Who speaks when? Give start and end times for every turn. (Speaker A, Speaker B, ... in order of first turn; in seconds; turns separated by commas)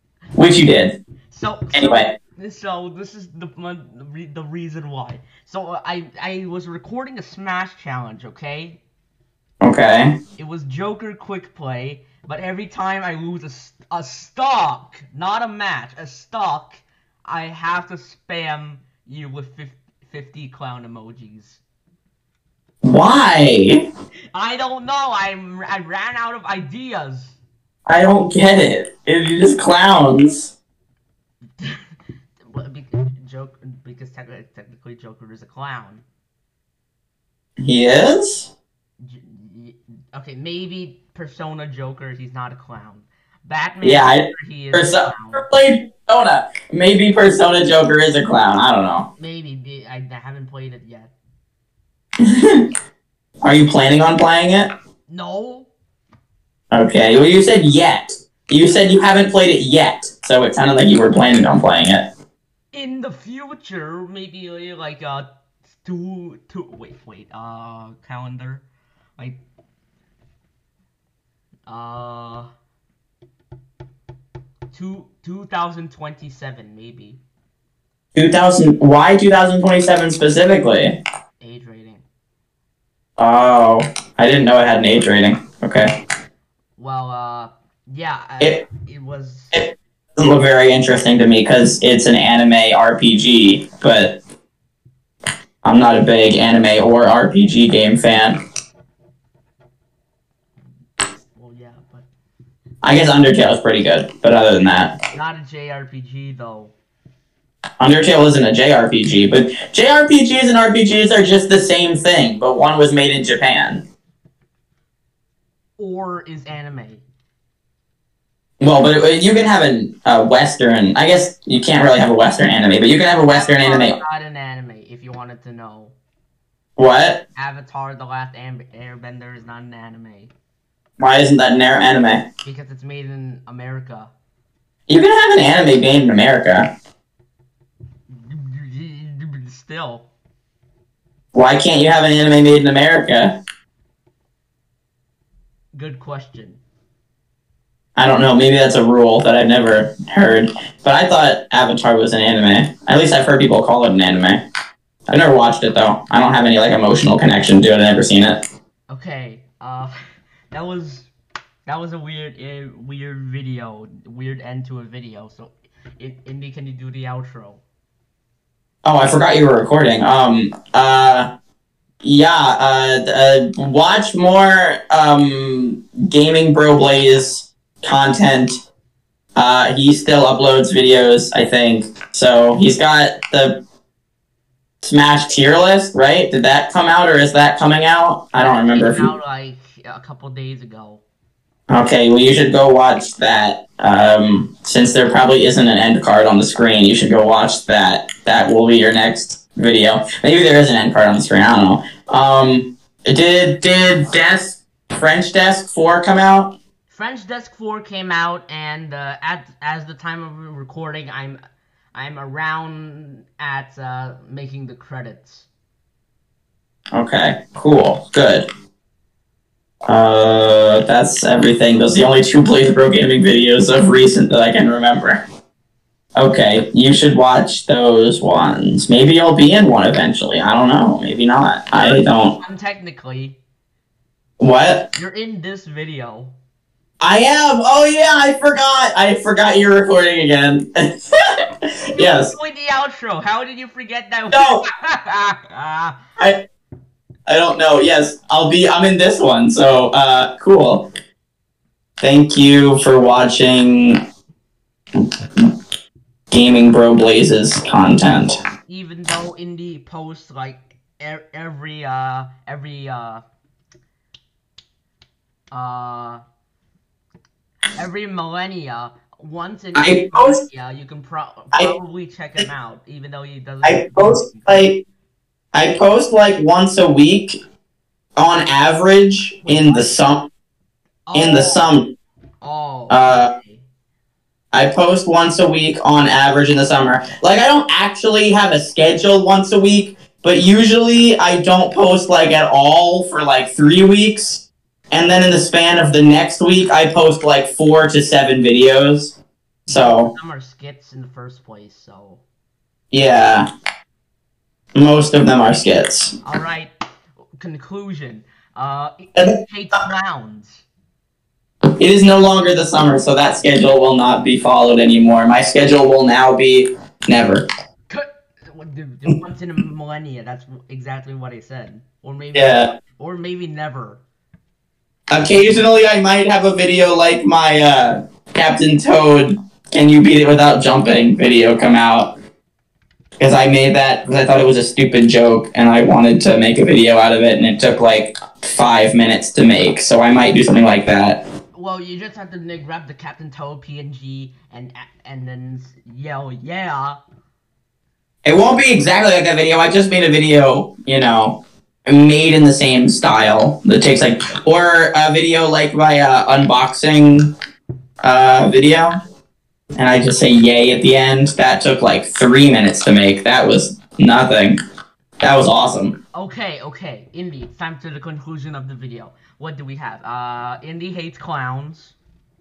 Speaker A: 0.4-1.0, Speaker B: 1.3-8.8, Speaker A: 1.7-2.1, Speaker A: 9.6-10.2, Speaker B: 10.4-21.6, Speaker A: 22.8-23.8, Speaker B: 24.3-27.4, Speaker A: 27.9-30.5, Speaker B: 31.6-31.8, Speaker B: 32.4-36.0, Speaker A: 37.6-38.5, Speaker B: 39.0-45.4, Speaker A: 43.8-49.1, Speaker B: 49.2-51.1, Speaker A: 52.2-52.7, Speaker A: 53.4-54.7, Speaker B: 55.1-55.7, Speaker A: 56.7-62.1, Speaker B: 62.7-68.7, Speaker B: 71.7-72.5, Speaker B: 74.7-77.2, Speaker A: 78.2-81.0, Speaker B: 81.4-82.0, Speaker A: 83.2-85.9, Speaker B: 86.8-89.6, Speaker A: 89.5-94.2, Speaker A: 95.6-98.4, Speaker B: 101.0-102.1, Speaker A: 102.8-104.9, Speaker B: 105.1-106.8, Speaker A: 107.8-113.8, Speaker B: 115.8-117.0, Speaker A: 118.6-124.0, Speaker B: 123.3-126.0, Speaker A: 126.8-127.2, Speaker B: 127.4-130.3, Speaker A: 131.0-132.2, Speaker B: 132.4-134.1, Speaker A: 134.9-136.7, Speaker B: 138.1-140.1, Speaker A: 141.3-143.4, Speaker B: 145.7-146.6, Speaker A: 148.0-154.4, Speaker A: 155.1-158.4, Speaker B: 158.9-159.9, Speaker B: 160.5-161.1, Speaker B: 161.7-167.6, Speaker A: 168.8-171.3, Speaker A: 172.0-178.5, Speaker A: 179.4-183.6, Speaker A: 184.8-189.1, Speaker B: 188.3-191.0, Speaker A: 191.7-206.5, Speaker B: 206.9-211.4, Speaker B: 211.9-215.5, Speaker A: 216.9-218.4, Speaker A: 219.9-225.2, Speaker A: 226.2-232.3, Speaker B: 231.8-233.4, Speaker A: 234.4-234.8, Speaker B: 234.9-236.3, Speaker A: 237.0-242.3, Speaker B: 242.0-246.1, Speaker A: 244.3-244.6, Speaker A: 247.3-250.8, Speaker A: 252.0-254.0, Speaker A: 255.0-255.5, Speaker A: 256.3-258.4, Speaker B: 258.7-263.2, Speaker B: 265.5-266.2, Speaker B: 267.8-274.7, Speaker A: 269.8-270.4, Speaker A: 273.6-274.8, Speaker A: 275.5-277.4, Speaker A: 278.2-280.3, Speaker B: 279.4-279.9, Speaker B: 281.1-281.6, Speaker A: 281.1-281.9, Speaker B: 282.4-283.7, Speaker A: 282.9-283.3, Speaker A: 284.5-299.1, Speaker A: 299.7-300.1, Speaker B: 299.7-302.2, Speaker A: 302.9-303.5, Speaker A: 304.8-306.2, Speaker B: 306.2-306.7, Speaker B: 307.4-310.7, Speaker A: 311.8-317.4, Speaker B: 317.9-324.0, Speaker A: 322.3-322.7, Speaker A: 325.1-332.1, Speaker A: 333.2-341.2, Speaker B: 341.5-347.0, Speaker A: 348.2-357.3, Speaker A: 358.0-358.9, Speaker A: 359.8-364.6, Speaker A: 365.2-365.9, Speaker B: 366.1-372.0